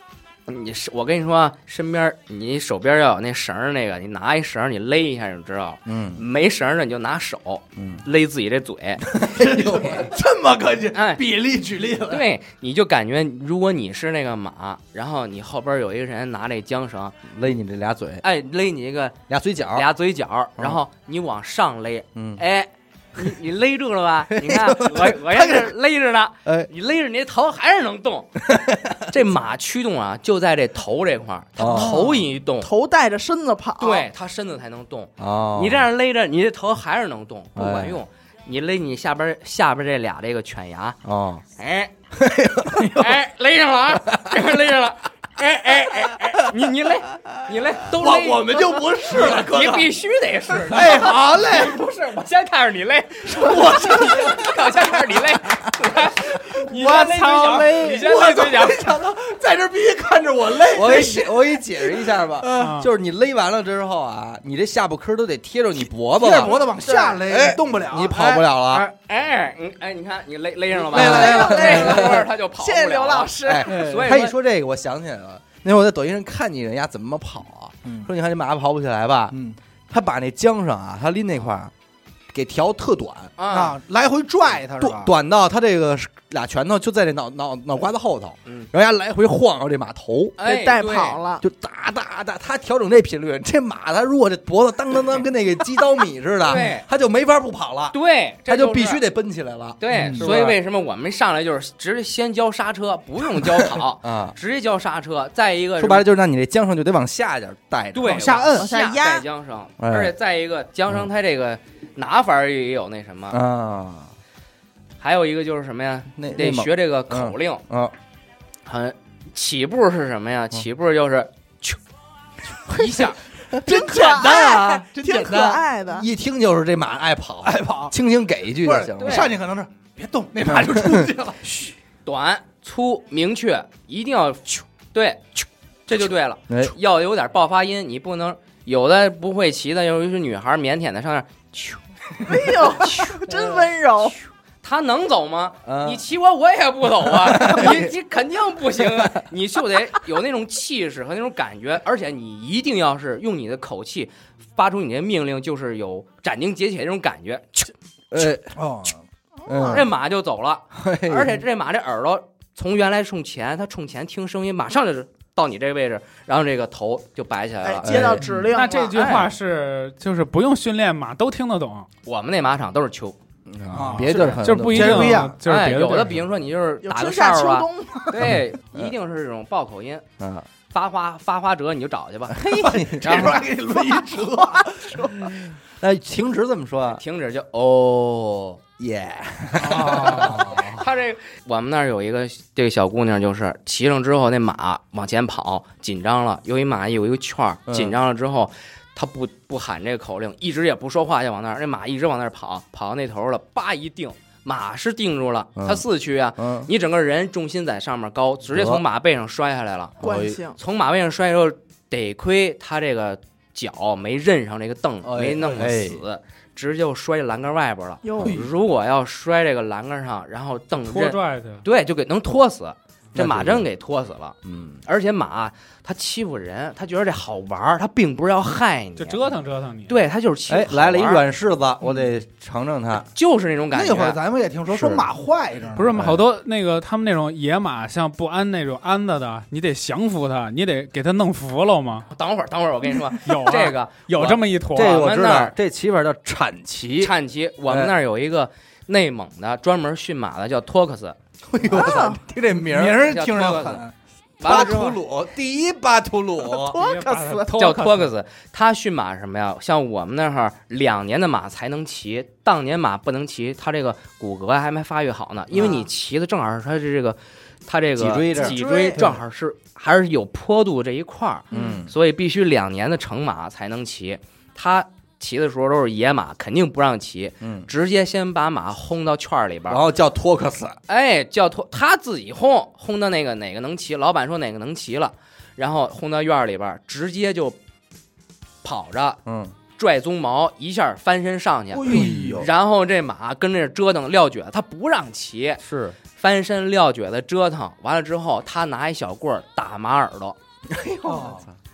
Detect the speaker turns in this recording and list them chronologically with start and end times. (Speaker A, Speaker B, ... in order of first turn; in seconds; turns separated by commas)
Speaker A: 0.5-9.2, Speaker B: 5.9-6.2, Speaker B: 7.8-8.0, Speaker B: 9.1-10.1, Speaker C: 9.4-12.2, Speaker A: 10.9-11.2, Speaker A: 12.1-17.2, Speaker B: 17.3-18.2, Speaker A: 18.2-19.2, Speaker B: 19.3-19.9, Speaker A: 19.7-28.3, Speaker B: 22.1-22.4, Speaker B: 24.3-25.4, Speaker B: 28.4-29.1, Speaker A: 29.1-32.7, Speaker B: 31.6-32.1, Speaker D: 32.6-34.1, Speaker A: 33.8-41.0, Speaker B: 35.2-35.9, Speaker B: 37.6-38.0, Speaker B: 41.0-41.4, Speaker A: 41.6-41.9, Speaker B: 42.1-43.2, Speaker A: 42.7-59.0, Speaker B: 44.1-44.5, Speaker C: 47.9-49.9, Speaker C: 50.6-51.8, Speaker C: 53.3-54.8, Speaker C: 56.5-62.7, Speaker B: 60.7-68.9, Speaker E: 62.6-62.9, Speaker C: 66.2-68.4, Speaker A: 68.2-74.4, Speaker B: 70.9-72.3, Speaker C: 70.9-71.8, Speaker D: 70.9-73.7, Speaker B: 73.5-79.4, Speaker C: 73.7-74.1, Speaker C: 79.3-79.6, Speaker B: 79.9-81.7, Speaker B: 82.3-83.3, Speaker A: 83.4-83.8, Speaker C: 83.5-85.1, Speaker B: 84.7-90.4, Speaker A: 90.4-91.2, Speaker D: 90.4-91.4, Speaker B: 91.4-98.0, Speaker A: 96.5-96.9, Speaker A: 97.9-99.0, Speaker B: 98.5-100.6, Speaker A: 99.8-106.0, Speaker C: 99.9-100.3, Speaker B: 104.0-104.4, Speaker B: 105.8-108.5, Speaker A: 107.9-113.4, Speaker C: 108.0-108.7, Speaker D: 108.5-109.2, Speaker B: 109.8-110.1, Speaker B: 113.3-114.1, Speaker A: 115.0-117.6, Speaker B: 116.2-118.0, Speaker A: 118.7-121.8, Speaker A: 122.7-123.2, Speaker C: 123.5-125.6, Speaker D: 123.7-126.1, Speaker B: 125.3-129.3, Speaker C: 127.4-127.9, Speaker C: 128.6-131.7, Speaker A: 129.0-129.3, Speaker B: 130.5-131.1, Speaker A: 132.1-143.1, Speaker B: 136.5-136.7, Speaker D: 142.2-144.2, Speaker A: 144.6-157.7, Speaker B: 145.7-146.0, Speaker B: 147.0-147.9, Speaker B: 148.8-149.2, Speaker B: 158.1-158.6, Speaker C: 158.5-159.0, Speaker D: 159.5-159.9, Speaker B: 159.5-159.9, Speaker A: 159.6-169.3, Speaker B: 160.7-161.4, Speaker D: 167.6-169.1, Speaker B: 167.8-168.5, Speaker E: 168.5-171.9, Speaker A: 172.1-173.2, Speaker B: 173.5-175.3, Speaker C: 173.7-175.4, Speaker E: 174.0-176.2, Speaker A: 175.4-180.1, Speaker D: 176.8-178.2, Speaker B: 178.2-178.9, Speaker B: 180.2-180.5, Speaker A: 180.7-183.5, Speaker B: 182.3-183.4, Speaker C: 182.6-185.4, Speaker B: 185.7-187.0, Speaker A: 186.9-188.6, Speaker B: 188.8-190.8, Speaker A: 189.6-210.0, Speaker B: 197.7-198.0, Speaker B: 205.6-205.8, Speaker B: 206.4-206.7, Speaker B: 208.5-208.8, Speaker B: 210.0-210.4, Speaker D: 210.0-210.6, Speaker A: 210.6-224.3, Speaker B: 215.0-216.0, Speaker D: 218.0-218.4, Speaker B: 218.2-218.5, Speaker E: 220.8-221.7, Speaker B: 223.2-223.7, Speaker B: 224.4-224.8, Speaker A: 224.9-229.2, Speaker E: 229.0-230.0, Speaker A: 229.9-231.2, Speaker B: 230.5-233.1, Speaker A: 233.1-234.2, Speaker C: 233.7-236.0, Speaker B: 234.7-235.1, Speaker E: 235.8-242.1, Speaker B: 235.9-236.2, Speaker A: 242.1-245.5, Speaker E: 243.2-245.0, Speaker B: 244.7-247.1, Speaker A: 247.0-251.2, Speaker B: 247.7-247.9, Speaker B: 251.5-253.1, Speaker D: 251.7-252.2, Speaker C: 252.7-253.9, Speaker A: 253.0-253.8, Speaker A: 254.4-255.0, Speaker B: 254.4-256.8, Speaker C: 254.5-254.8, Speaker D: 256.5-257.6, Speaker E: 256.7-258.1, Speaker A: 257.5-279.8, Speaker B: 265.5-265.8, Speaker B: 268.0-268.6, Speaker C: 268.4-269.1, Speaker D: 268.5-269.0, Speaker B: 271.5-271.9, Speaker D: 271.5-271.8, Speaker B: 277.4-277.7, Speaker B: 279.7-280.8, Speaker A: 280.9-287.6, Speaker A: 288.6-289.2, Speaker B: 289.3-289.5, Speaker A: 289.8-295.6, Speaker C: 291.7-292.5, Speaker B: 291.9-292.5, Speaker B: 295.6-296.0, Speaker A: 296.1-300.4, Speaker B: 300.7-301.5, Speaker C: 301.1-301.4